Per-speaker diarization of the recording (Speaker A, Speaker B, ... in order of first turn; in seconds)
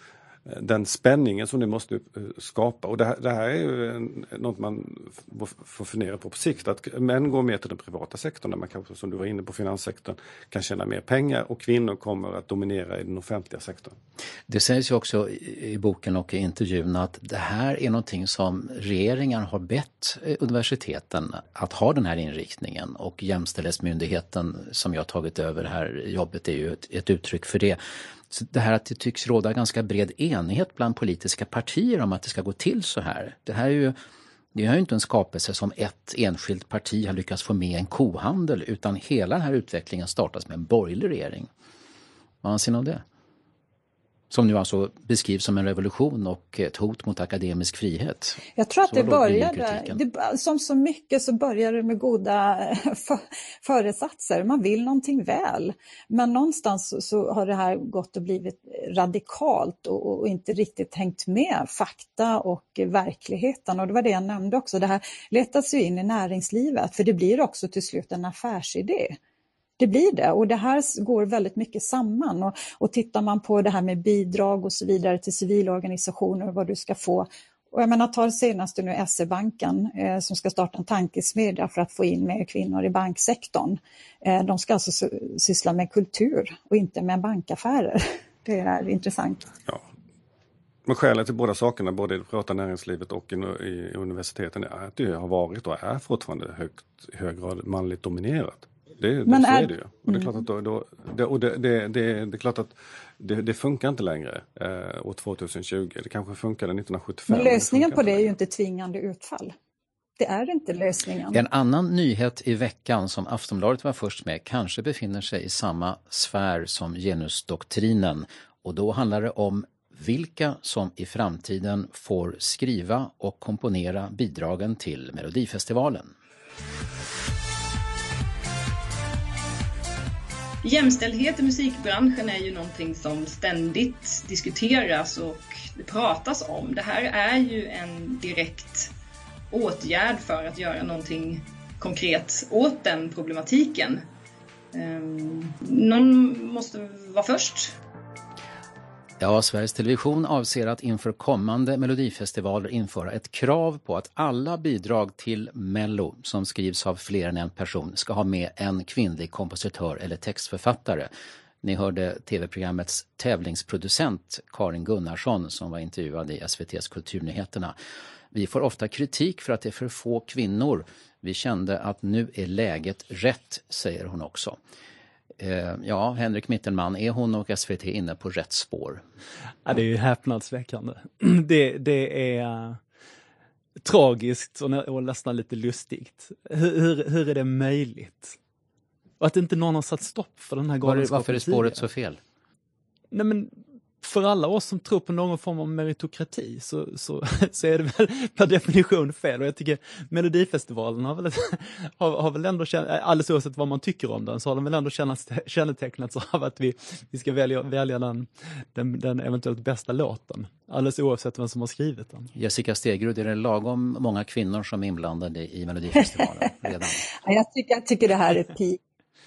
Speaker A: 0.5-13.9, 90.9-108.3
Speaker B: 14.5-34.0, 34.5-41.5, 42.4-43.0, 44.3-50.0, 111.3-126.1, 149.2-161.1, 161.6-167.8, 168.3-174.6, 175.4-179.0, 190.8-192.2, 212.3-217.1
Speaker C: 48.6-69.2, 69.8-89.5, 99.3-100.2, 107.3-109.5, 110.2-111.4, 217.2-218.8
Speaker D: 130.6-138.9, 139.5-144.0, 144.7-147.8
Speaker E: 179.7-182.8, 183.8-188.4, 189.2-191.8, 193.1-212.3